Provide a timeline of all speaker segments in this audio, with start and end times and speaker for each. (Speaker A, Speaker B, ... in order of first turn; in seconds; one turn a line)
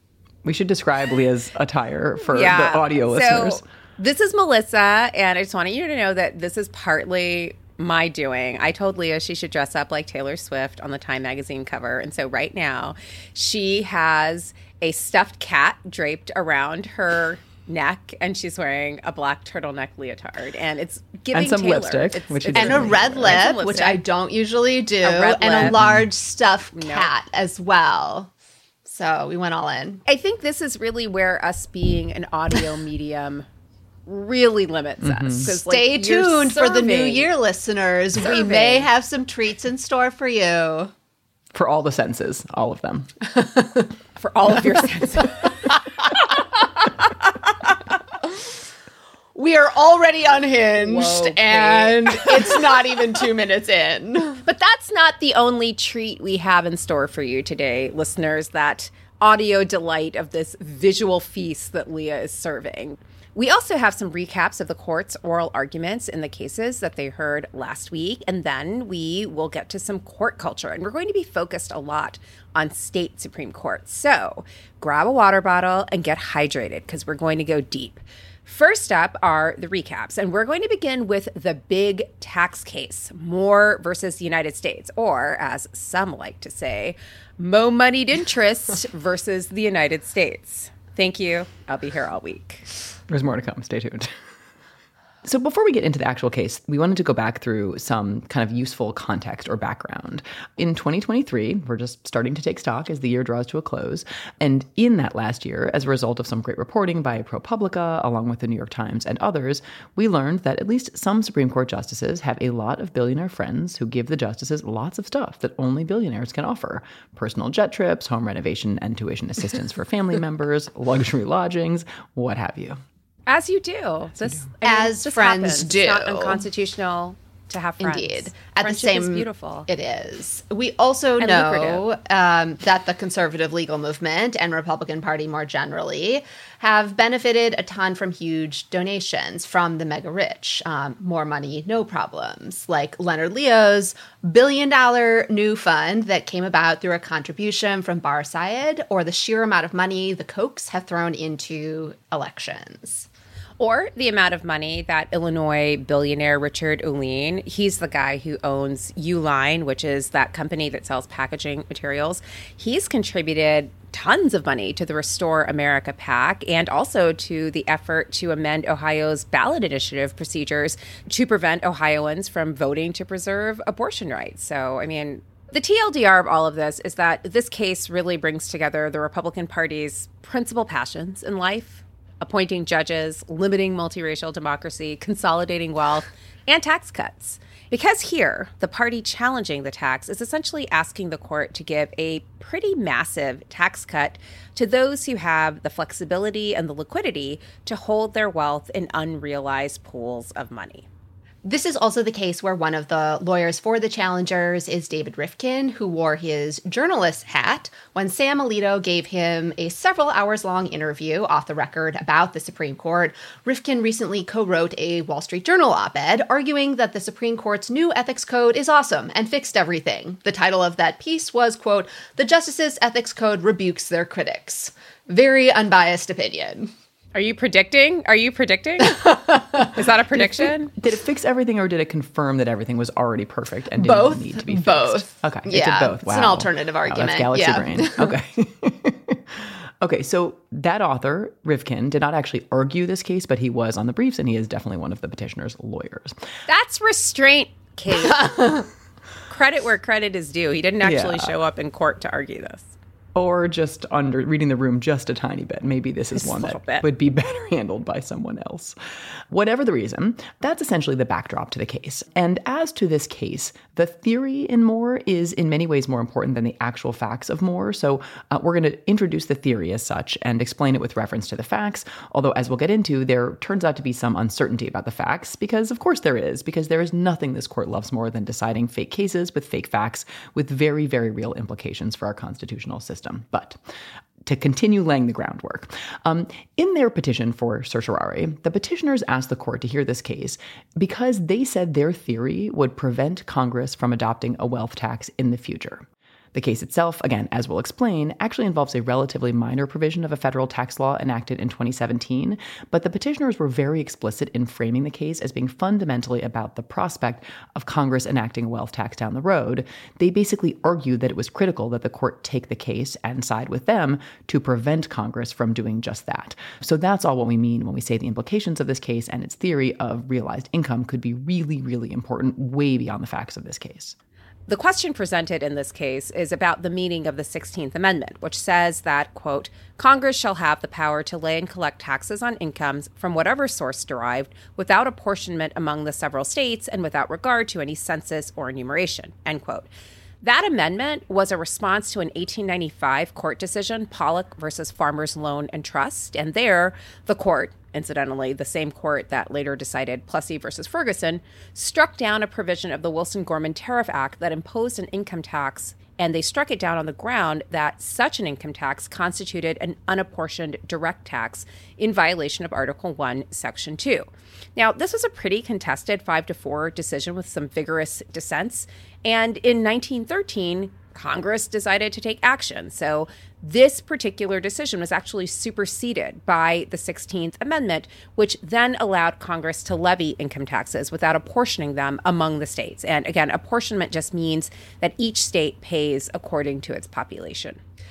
Speaker A: 0.4-3.6
Speaker B: 2.3-24.0
Speaker A: 21.3-23.4
Speaker C: 22.5-28.3
Speaker B: 25.0-25.8
Speaker A: 25.7-26.1
Speaker B: 26.7-27.1
Speaker C: 28.8-30.0
Speaker B: 30.1-33.4
Speaker B: 34.0-37.3
Speaker A: 35.0-35.5
Speaker C: 35.5-40.9
Speaker B: 38.2-38.9
Speaker A: 41.5-43.1
Speaker C: 43.4-43.9
Speaker B: 44.2-45.6
Speaker C: 49.3-54.4
Speaker B: 50.8-52.6
Speaker B: 54.4-92.7
Speaker A: 93.1-94.1
Speaker A: 95.2-122.8
Speaker B: 123.3-129.7
Speaker C: 124.6-126.4
Speaker C: 127.8-153.1
Speaker B: 131.2-131.8
Speaker B: 153.6-200.9
Speaker C: 201.4-226.7
Speaker B: 227.1-230.7
Speaker C: 228.9-229.7
Speaker A: 230.8-246.1
Speaker C: 233.8-238.1
Speaker B: 246.5-248.5
Speaker C: 248.0-248.6
Speaker B: 249.3-252.7
Speaker A: 250.8-251.3
Speaker A: 253.1-258.8
Speaker B: 256.1-256.8
Speaker A: 259.3-283.6
Speaker A: 284.2-323.9
Speaker B: 324.5-339.7
Speaker B: 340.2-387.6